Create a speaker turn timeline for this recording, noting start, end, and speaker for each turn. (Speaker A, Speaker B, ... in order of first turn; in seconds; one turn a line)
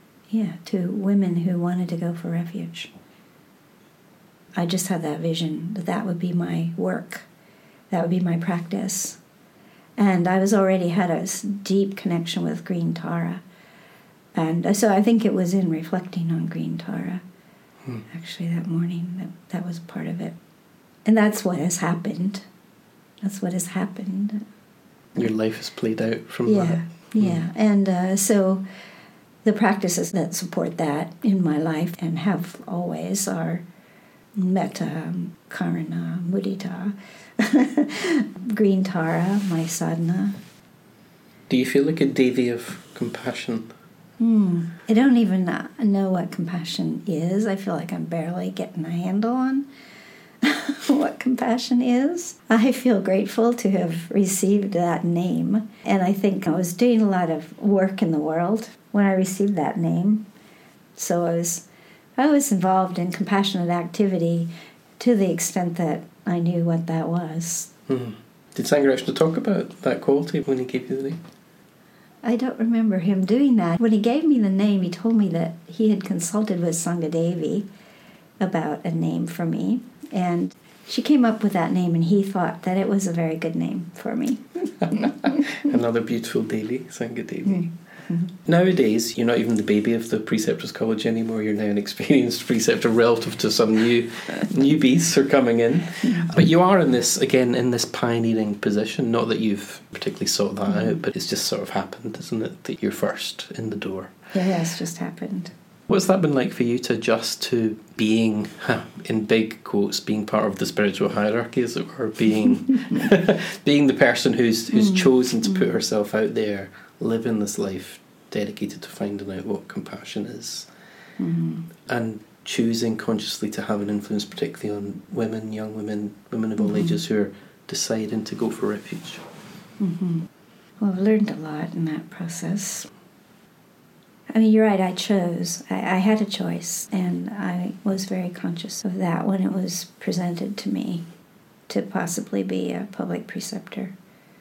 Speaker A: 0.3-2.9
Speaker A: 4.5-7.2
Speaker A: 7.9-9.2
Speaker A: 10.0-13.4
Speaker A: 14.3-17.2
Speaker A: 18.1-20.4
Speaker A: 21.0-22.4
Speaker A: 23.2-24.4
Speaker B: 25.2-27.4
Speaker A: 26.4-28.6
Speaker A: 29.4-33.6
Speaker A: 34.4-40.4
Speaker B: 41.5-43.7
Speaker A: 44.2-49.6
Speaker A: 50.4-60.3
Speaker A: 61.0-61.6
Speaker A: 62.2-67.7
Speaker B: 67.9-71.2
Speaker A: 72.2-77.7
Speaker A: 78.4-85.4
Speaker B: 84.8-87.7
Speaker A: 87.5-88.3
Speaker B: 88.4-104.3
Speaker A: 96.0-96.3
Speaker A: 100.7-101.0
Speaker A: 104.3-105.5
Speaker B: 105.9-120.7
Speaker A: 114.7-115.7
Speaker A: 121.2-121.7
Speaker B: 121.9-129.2
Speaker A: 126.6-127.0
Speaker A: 129.8-130.3
Speaker A: 130.8-132.9
Speaker A: 134.3-141.0
Speaker A: 141.7-143.9